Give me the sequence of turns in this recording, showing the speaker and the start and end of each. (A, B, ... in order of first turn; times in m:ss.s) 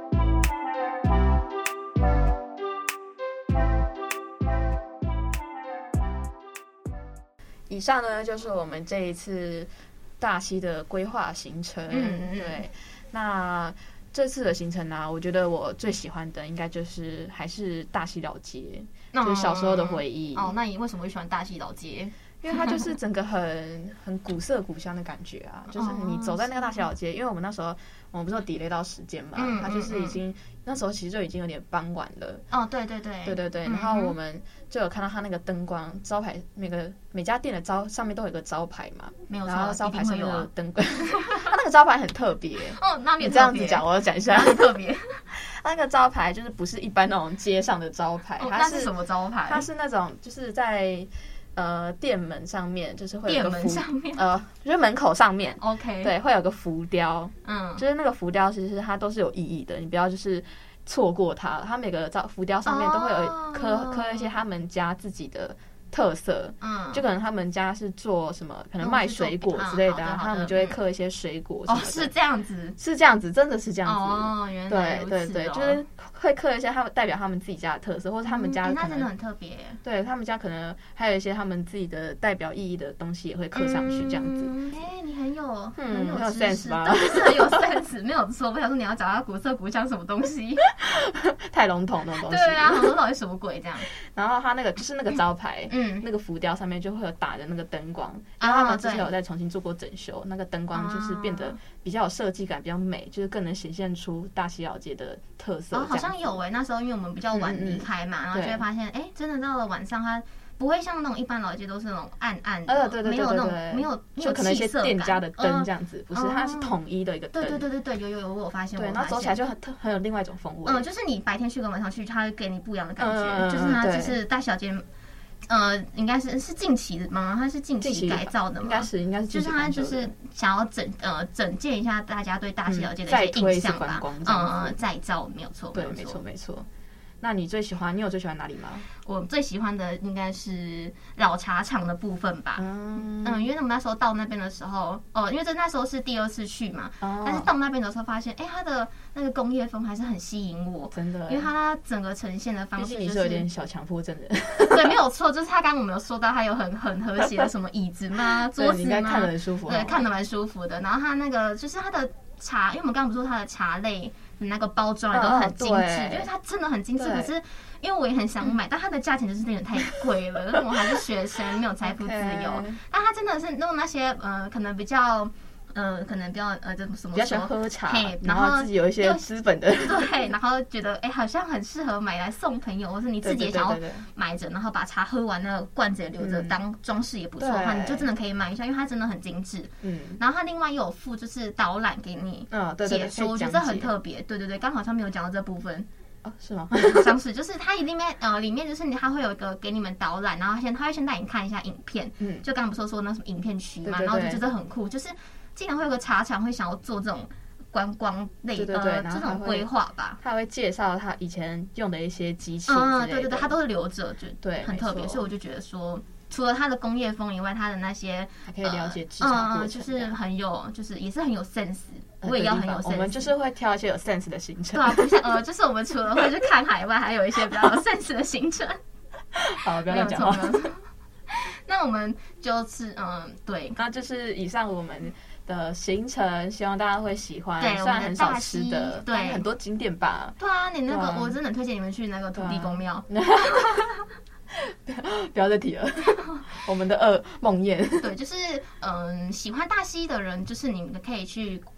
0:07.7-0:20.5 A
0:11.9-0:12.6 B
0:19.1-0:22.9 B
0:22.4-0:32.4 A
0:25.7-0:26.8 B
0:29.3-0:30.2 B
0:32.5-0:34.1 B
0:33.2-0:44.7 A
0:39.3-0:40.5 B
0:41.1-0:41.5 B
0:42.8-0:45.2 B
0:45.3-0:48.9 A
0:48.4-0:49.6 B
0:49.5-1:12.1 A
0:53.2-0:54.3 B
0:55.6-0:56.1 B
0:57.4-0:57.8 B
1:02.6-1:04.3 B
1:06.6-1:07.0 B
1:08.8-1:10.8 B
1:11.6-1:12.8 B
1:12.8-1:19.1 A
1:13.8-1:15.8 B
1:18.2-1:19.8 B
1:19.8-1:24.6 A
1:23.5-1:30.6 B
1:25.8-1:27.8 A
1:30.8-1:33.0 A
1:32.2-1:33.9 B
1:33.9-1:46.4 A
1:35.7-1:36.0 B
1:38.4-1:39.1 B
1:40.7-1:41.6 B
1:45.7-1:56.7 B
1:47.3-1:48.6 A
1:52.7-1:57.6 A
1:57.3-1:59.4 B
1:58.8-2:00.8 A
2:00.6-2:04.8 B
2:03.0-2:04.2 A
2:05.5-2:16.2 B
2:07.8-2:10.1 A
2:12.7-2:14.8 A
2:15.7-2:16.7 A
2:17.2-2:18.8 A
2:19.0-2:33.5 B
2:22.6-2:23.5 A
2:27.0-2:27.5 A
2:30.9-2:31.5 A
2:32.8-2:35.0 A
2:34.6-2:59.2 B
2:38.3-2:40.0 A
2:45.1-2:46.3 A
2:47.0-2:47.3 A
2:51.8-2:52.8 A
2:57.1-3:00.1 A
2:59.8-3:15.9 B
3:03.2-3:04.0 A
3:06.2-3:06.5 A
3:07.4-3:08.1 A
3:09.8-3:10.2 A
3:12.5-3:13.9 A
3:16.2-3:17.1 A
3:16.8-3:30.2 B
3:22.2-3:22.4 A
3:23.8-3:24.4 A
3:28.5-3:29.7 A
3:30.2-3:33.5 A
3:32.6-3:43.3 B
3:34.4-3:35.3 A
3:38.5-3:40.1 A
3:42.2-3:45.2 A
3:44.7-3:48.8 B
3:49.3-3:50.6 A
3:49.8-3:53.8 B
3:53.8-4:01.4 A
3:57.6-3:59.4 B
4:00.4-4:03.1 B
4:02.3-4:04.0 A
4:04.5-4:08.1 A
4:08.0-4:11.7 B